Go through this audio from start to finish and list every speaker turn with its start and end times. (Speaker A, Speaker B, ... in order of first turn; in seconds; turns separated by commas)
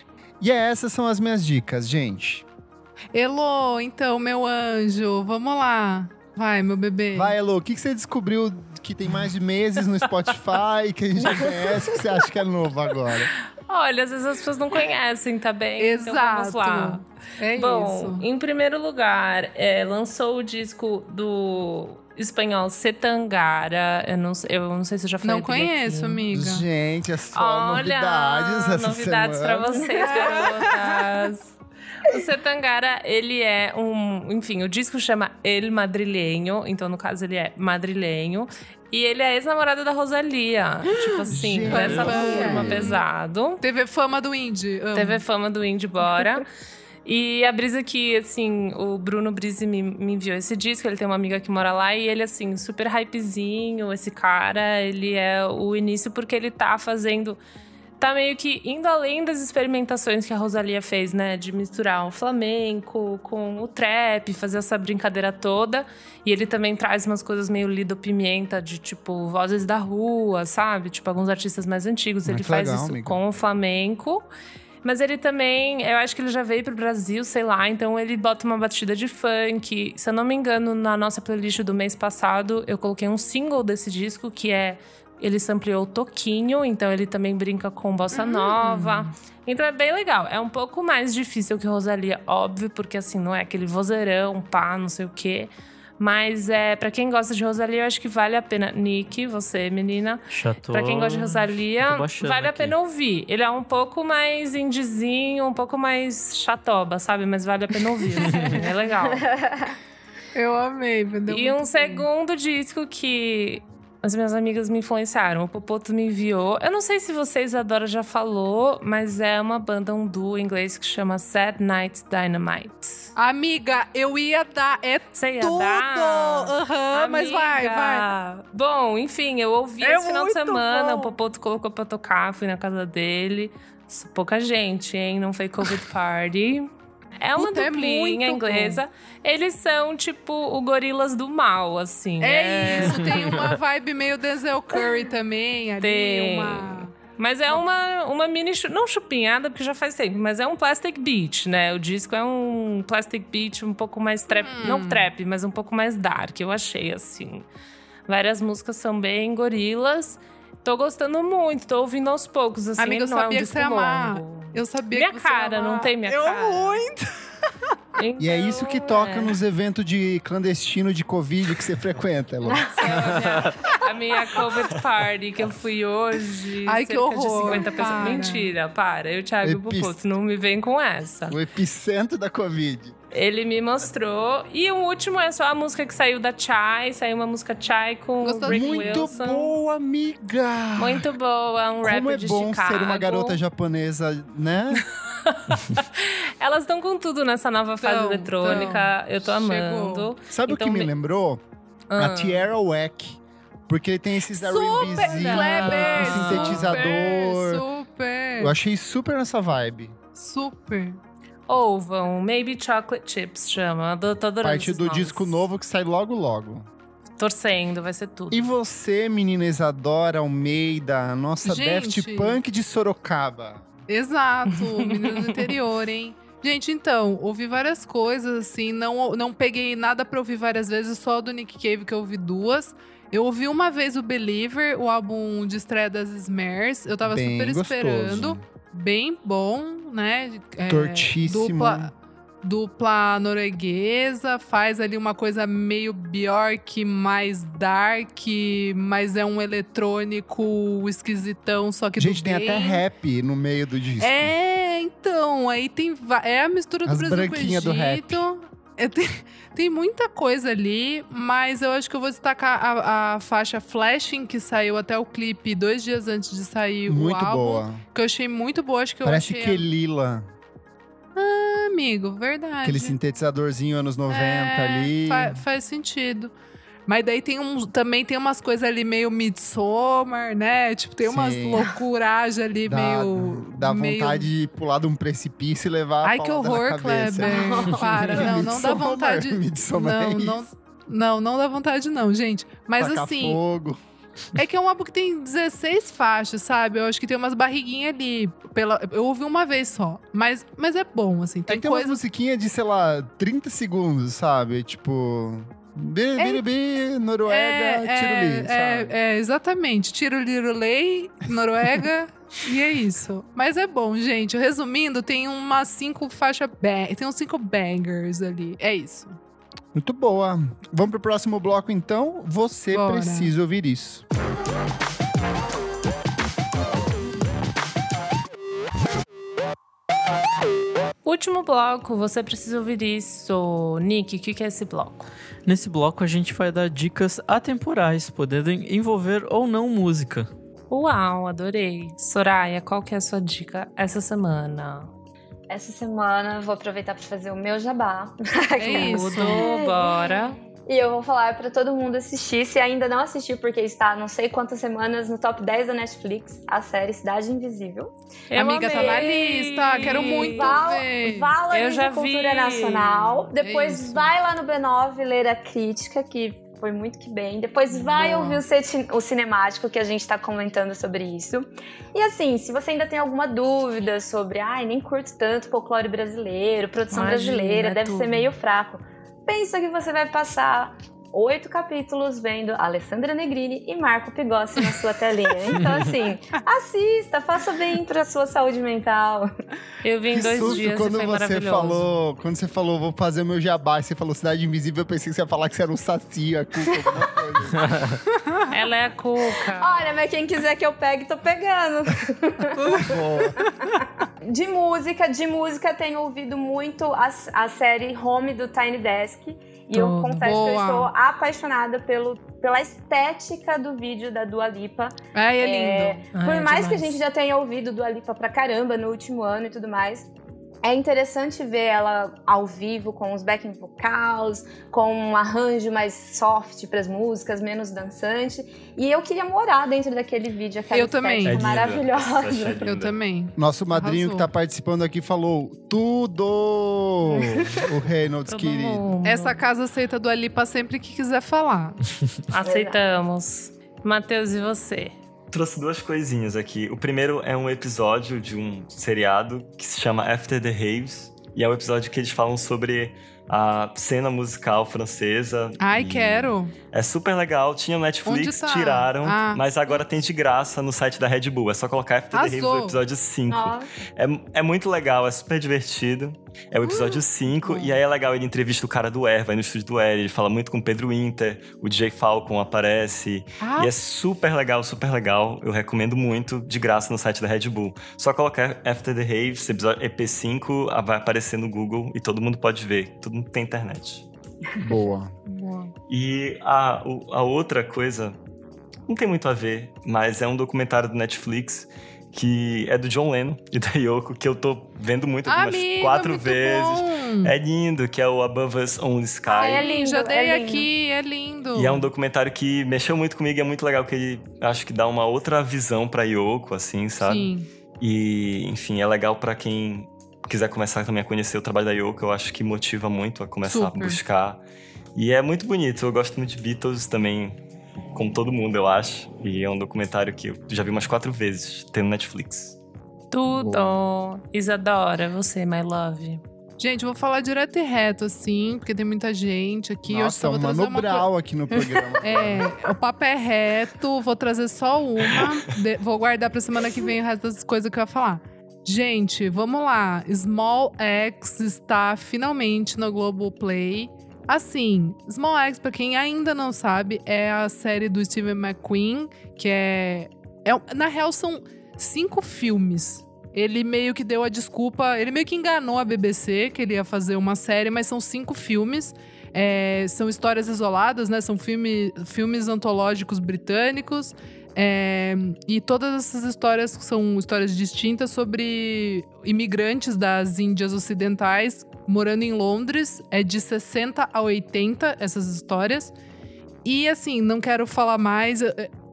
Speaker A: 0.4-2.4, Speaker B: 3.1-7.3, Speaker A: 7.1-13.3, Speaker C: 11.2-11.9, Speaker D: 13.7-17.0, Speaker B: 15.8-18.2, Speaker D: 17.6-26.3, Speaker B: 25.2-26.6, Speaker A: 26.3-29.9, Speaker D: 27.3-31.5, Speaker B: 30.0-31.0, Speaker D: 32.1-43.6, Speaker B: 40.9-43.0, Speaker A: 41.3-43.0, Speaker E: 41.7-42.6, Speaker B: 43.6-45.2, Speaker D: 44.9-46.5, Speaker D: 47.0-57.4, Speaker D: 58.0-74.3, Speaker A: 72.2-73.2, Speaker D: 74.8-109.3, Speaker B: 88.1-89.1, Speaker E: 100.3-102.7, Speaker B: 108.2-108.5, Speaker E: 108.3-108.6, Speaker C: 109.1-109.7, Speaker B: 110.3-112.0, Speaker D: 111.3-123.1, Speaker B: 123.2-128.1, Speaker D: 125.1-143.3, Speaker B: 129.8-131.2, Speaker B: 137.3-138.8, Speaker B: 142.2-146.9, Speaker E: 142.8-143.5, Speaker D: 145.8-157.5, Speaker B: 154.3-155.0, Speaker D: 158.1-166.8, Speaker B: 162.8-167.1, Speaker D: 168.0-169.4, Speaker A: 168.2-172.7, Speaker D: 172.7-181.3, Speaker E: 173.0-173.5, Speaker B: 176.7-178.5, Speaker A: 179.4-180.0, Speaker A: 181.3-182.9, Speaker D: 183.1-189.5, Speaker B: 188.2-188.9, Speaker A: 188.4-191.1, Speaker D: 190.8-193.4, Speaker A: 191.8-194.8, Speaker D: 194.8-200.9, Speaker B: 197.8-200.1, Speaker A: 200.3-201.4, Speaker D: 201.9-202.4, Speaker A: 201.9-207.6, Speaker B: 204.3-208.5, Speaker D: 204.9-207.0, Speaker A: 208.4-209.9, Speaker B: 210.2-211.0, Speaker D: 211.5-215.4, Speaker A: 214.4-216.7, Speaker D: 217.2-218.5, Speaker A: 218.3-223.7, Speaker B: 221.4-222.4, Speaker B: 223.9-241.9, Speaker D: 224.8-225.4, Speaker A: 237.0-238.4, Speaker A: 240.7-241.9, Speaker B: 242.4-252.8, Speaker A: 252.0-254.3, Speaker B: 254.0-269.6, Speaker A: 256.8-258.2, Speaker A: 266.9-267.8, Speaker A: 269.0-270.3, Speaker B: 271.1-273.0, Speaker A: 272.6-275.4, Speaker B: 274.1-276.3, Speaker B: 276.9-284.3, Speaker A: 281.0-281.7, Speaker A: 282.6-290.4, Speaker B: 286.0-293.4, Speaker C: 287.2-288.3, Speaker A: 292.8-293.8, Speaker B: 294.4-302.0, Speaker A: 301.5-308.9, Speaker B: 306.2-306.4, Speaker B: 307.3-319.2, Speaker A: 319.7-324.0, Speaker B: 322.7-323.3, Speaker D: 331.0-335.1, Speaker E: 335.4-340.3, Speaker D: 340.7-344.9, Speaker C: 345.5-357.9, Speaker B: 348.6-349.5, Speaker D: 348.7-350.4, Speaker D: 358.3-360.6, Speaker B: 358.3-361.3, Speaker C: 358.6-359.0, Speaker C: 360.2-389.3, Speaker D: 361.5-363.3, Speaker B: 363.4-364.1, Speaker D: 367.7-368.4, Speaker D: 376.9-378.3, Speaker D: 389.8-391.9, Speaker A: 390.1-397.7, Speaker E: 397.5-398.0, Speaker D: 398.5-400.0, Speaker C: 399.4-403.0, Speaker B: 402.6-402.9, Speaker A: 402.8-403.4, Speaker C: 404.3-420.1, Speaker D: 409.7-410.2, Speaker B: 410.2-410.9, Speaker B: 415.1-416.0, Speaker D: 416.1-417.0, Speaker C: 420.6-432.6, Speaker B: 430.7-431.5, Speaker F: 431.2-432.9, Speaker B: 432.6-434.3, Speaker A: 433.4-438.9, Speaker D: 438.3-439.4, Speaker B: 439.0-441.8, Speaker D: 442.3-445.0, Speaker C: 442.4-442.8, Speaker F: 445.3-484.1, Speaker B: 455.6-456.5, Speaker B: 458.0-459.4, Speaker B: 462.1-462.8, Speaker C: 463.3-463.7, Speaker B: 466.6-467.0, Speaker D: 467.4-467.8, Speaker B: 473.4-473.8, Speaker A: 484.6-485.1, Speaker D: 485.3-485.7, Speaker F: 485.9-488.2, Speaker F: 488.9-499.7, Speaker B: 495.2-497.3, Speaker C: 499.3-500.7, Speaker B: 499.4-501.9, Speaker F: 501.5-514.4, Speaker B: 507.0-507.5, Speaker B: 513.5-514.0, Speaker F: 514.9-517.4, Speaker F: 517.9-522.6, Speaker D: 523.1-526.2, Speaker A: 523.3-523.8, Speaker B: 526.6-531.1, Speaker A: 529.9-532.5, Speaker B: 532.0-575.9, Speaker B: 576.6-578.7